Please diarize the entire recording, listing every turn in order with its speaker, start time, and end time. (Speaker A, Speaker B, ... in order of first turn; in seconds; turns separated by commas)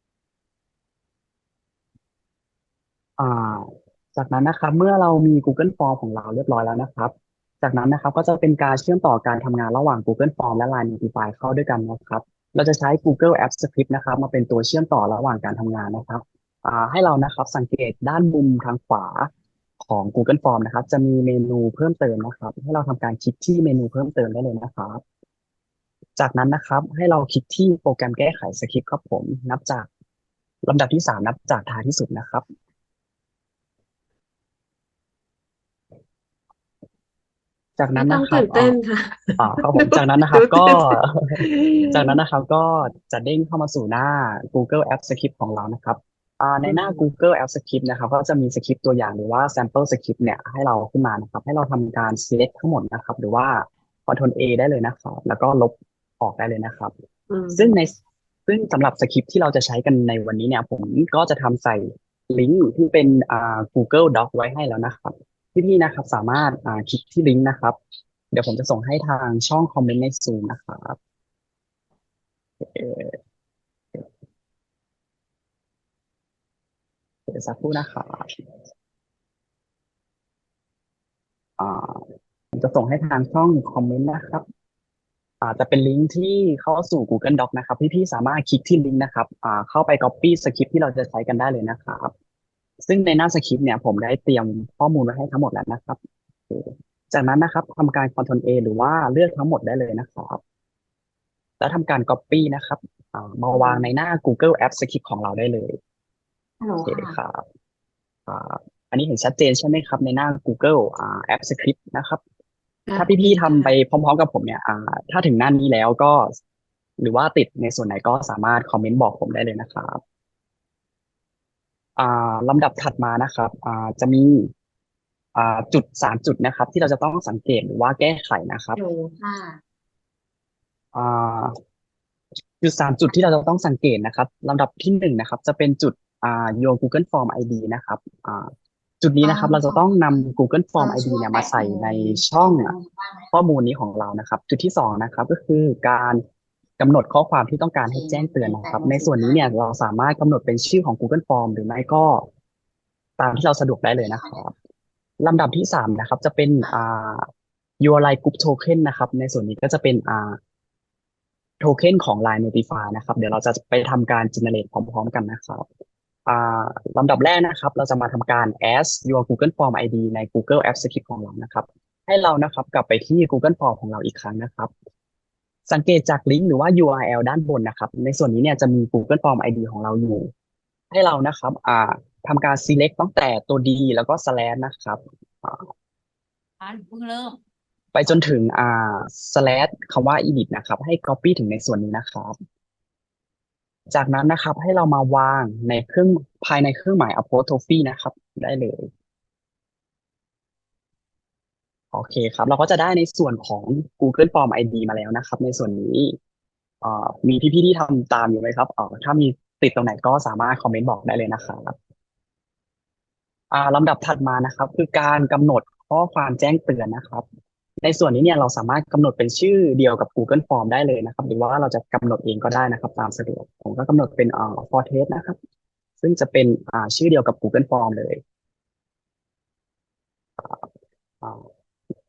Speaker A: 3.2-25.0, Speaker A: 26.2-29.9, Speaker A: 30.6-32.4, Speaker A: 37.8-38.7, Speaker B: 38.0-42.2, Speaker A: 39.4-56.9, Speaker B: 46.6-47.0, Speaker B: 57.3-57.7, Speaker A: 57.5-57.9, Speaker A: 58.5-67.8, Speaker A: 68.3-71.0, Speaker A: 72.6-73.2, Speaker A: 77.3-78.3, Speaker A: 81.6-84.4, Speaker A: 85.4-92.1, Speaker A: 92.8-100.4, Speaker A: 101.6-105.8, Speaker C: 106.6-107.2, Speaker A: 106.8-107.4, Speaker A: 108.3-112.2, Speaker B: 112.9-113.7, Speaker A: 113.0-116.3, Speaker A: 117.0-120.0, Speaker A: 122.0-124.5, Speaker A: 125.3-128.8, Speaker C: 128.8-129.6, Speaker A: 130.9-131.5, Speaker A: 132.6-142.8, Speaker C: 139.2-143.3, Speaker A: 143.3-146.2, Speaker A: 146.8-152.2, Speaker C: 147.9-149.5, Speaker A: 153.2-154.5, Speaker C: 154.0-154.4, Speaker A: 155.2-157.3, Speaker A: 157.8-160.4, Speaker A: 161.6-165.6, Speaker A: 166.2-174.7, Speaker A: 175.7-180.3, Speaker A: 180.9-185.7, Speaker A: 187.9-192.3, Speaker A: 193.9-198.9, Speaker A: 201.9-206.2, Speaker A: 206.8-211.8, Speaker A: 213.5-217.2, Speaker A: 217.8-225.4, Speaker A: 226.0-228.2, Speaker A: 230.4-230.7, Speaker A: 231.2-231.5